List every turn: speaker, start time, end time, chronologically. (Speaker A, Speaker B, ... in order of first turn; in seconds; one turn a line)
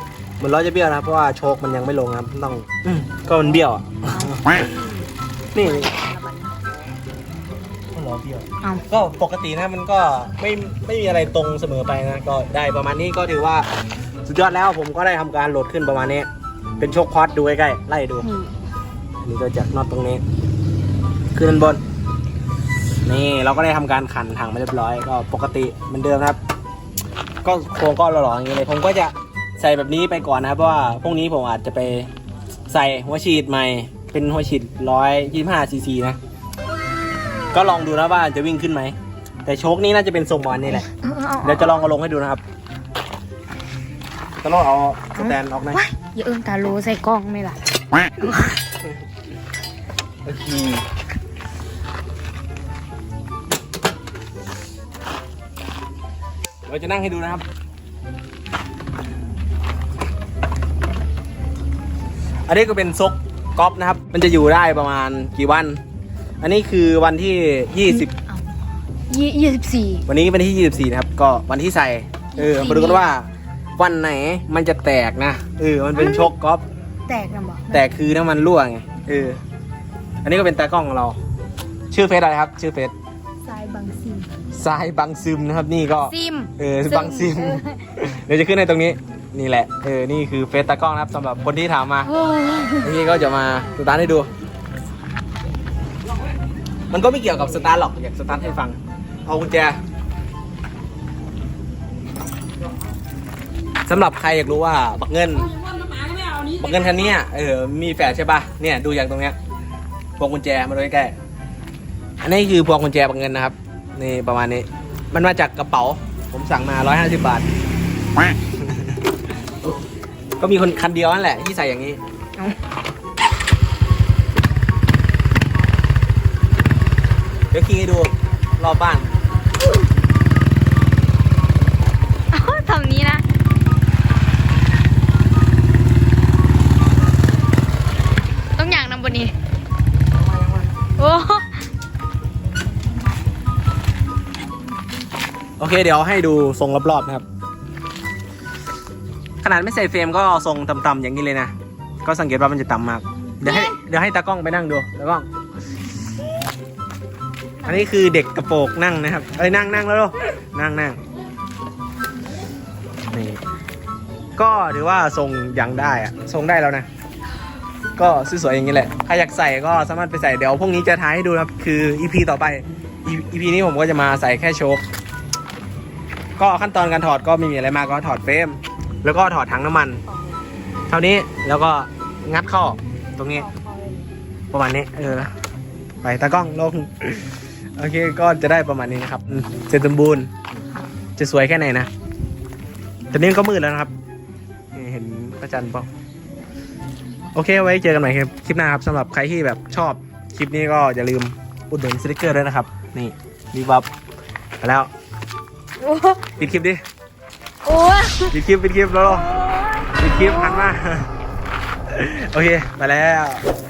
Speaker A: 0.4-4.6
Speaker B: 4.1-4.9
Speaker A: 5.5-5.9
Speaker B: 5.5-6.5
Speaker A: 7.9-13.7
Speaker A: 14.2-16.3
Speaker A: 16.8-18.3
Speaker B: 18.2-18.5
Speaker A: 19.2-20.2
Speaker A: 21.3-21.8
Speaker A: 23.0-26.4
Speaker A: 27.4-32.1
Speaker A: 32.7-36.2
Speaker A: 37.5-40.9
Speaker B: 40.8-41.8
Speaker A: 41.4-42.4
Speaker A: 44.4-45.8
Speaker B: 45.1-48.6
Speaker A: 50.2-50.9
Speaker A: 56.7-57.4
Speaker A: 62.5-65.8
Speaker A: 66.4-68.1
Speaker B: 67.9-68.4
Speaker B: 69.1-70.0
Speaker A: 70.1-76.6
Speaker B: 72.3-73.1
Speaker B: 75.9-76.3
Speaker B: 77.1-77.8
Speaker A: 77.7-79.4
Speaker A: 80.2-81.2
Speaker A: 81.9-82.9
Speaker B: 83.5-84.3
Speaker A: 84.5-92.1
Speaker B: 86.0-87.8
Speaker B: 92.1-92.9
Speaker A: 92.8-94.3
Speaker A: 96.9-99.8
Speaker A: 103.8-105.5
Speaker A: 106.4-109.4
Speaker A: 110.2-111.2
Speaker A: 112.2-117.5
Speaker A: 118.6-119.0
Speaker A: 120.4-122.0
Speaker A: 127.5-129.1
Speaker B: 132.3-133.2
Speaker B: 138.6-139.3
Speaker B: 141.0-141.5
Speaker A: 145.6-147.2
Speaker A: 149.4-155.3
Speaker B: 153.4-153.7
Speaker A: 157.6-161.0
Speaker A: 163.1-163.4
Speaker A: 164.3-166.9
Speaker A: 168.0-174.8
Speaker A: 176.4-180.0
Speaker B: 180.1-180.4
Speaker A: 180.9-183.5
Speaker B: 183.3-184.1
Speaker A: 184.5-185.3
Speaker A: 186.0-190.3
Speaker A: 191.2-191.9
Speaker A: 193.1-193.9
Speaker A: 194.7-195.9
Speaker A: 197.3-203.9
Speaker A: 204.6-204.9
Speaker B: 205.8-206.2
Speaker A: 206.4-206.8
Speaker B: 207.6-208.3
Speaker A: 208.3-209.3
Speaker B: 209.2-210.7
Speaker A: 209.9-211.1
Speaker A: 211.9-213.4